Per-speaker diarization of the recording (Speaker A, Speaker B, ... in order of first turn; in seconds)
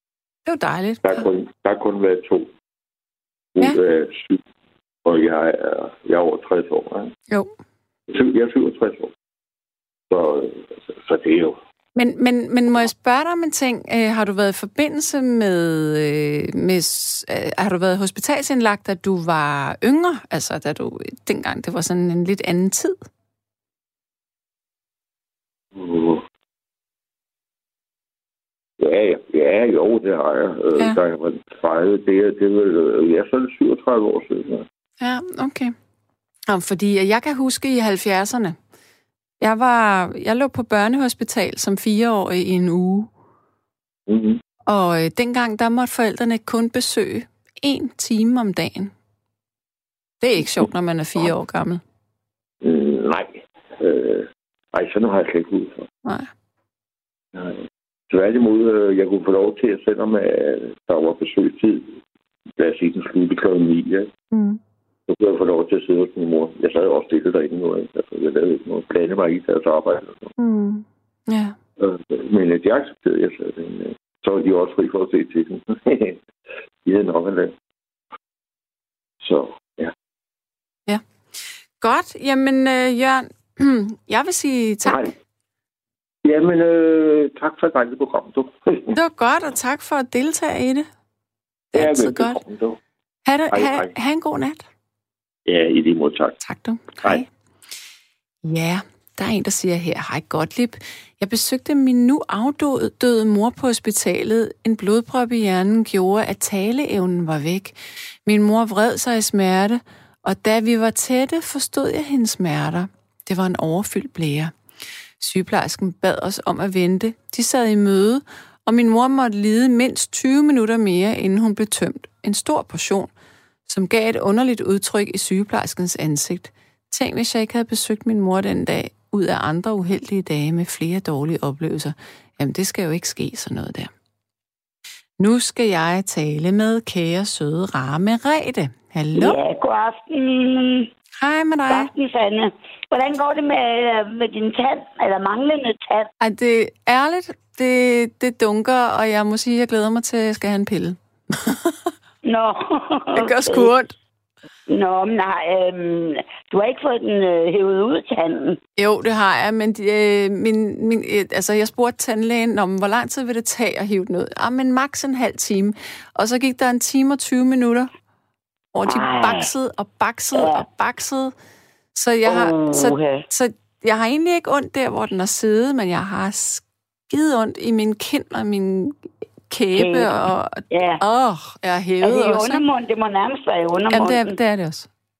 Speaker A: 0.5-1.3, 12.0-23.0, 35.0-35.8, 36.5-38.6, 39.4-43.1, 44.7-48.9, 50.2-51.8, 56.0-56.3, 64.3-64.6, 70.4-71.6, 81.8-85.1, 88.9-90.9, 91.7-92.4, 93.3-94.6, 96.4-97.3, 98.5-114.5, 115.2-123.1, 123.7-133.9, 135.2-139.4, 141.2-141.9, 146.2-151.9, 153.1-153.9, 158.8-167.9, 168.7-171.3, 171.9-182.6, 183.9-184.9
Speaker B: 1.0-2.5, 3.5-4.4, 5.0-7.1, 8.1-9.1, 10.1-11.6, 25.8-26.2, 28.8-34.6, 44.1-44.4, 52.6-55.9, 57.3-62.0, 62.6-64.1, 65.1-70.3, 71.8-76.2, 76.8-77.5, 79.2-79.9, 84.8-85.1, 86.2-89.0, 91.8-92.8, 93.5-93.9, 95.5-96.4
Speaker C: 139.2-140.9, 141.7-146.1, 152.2-153.7, 154.7-158.6, 168.9-169.5, 170.3-170.6, 172.2-173.2, 179.8-180.2, 180.7-181.0, 182.0-184.4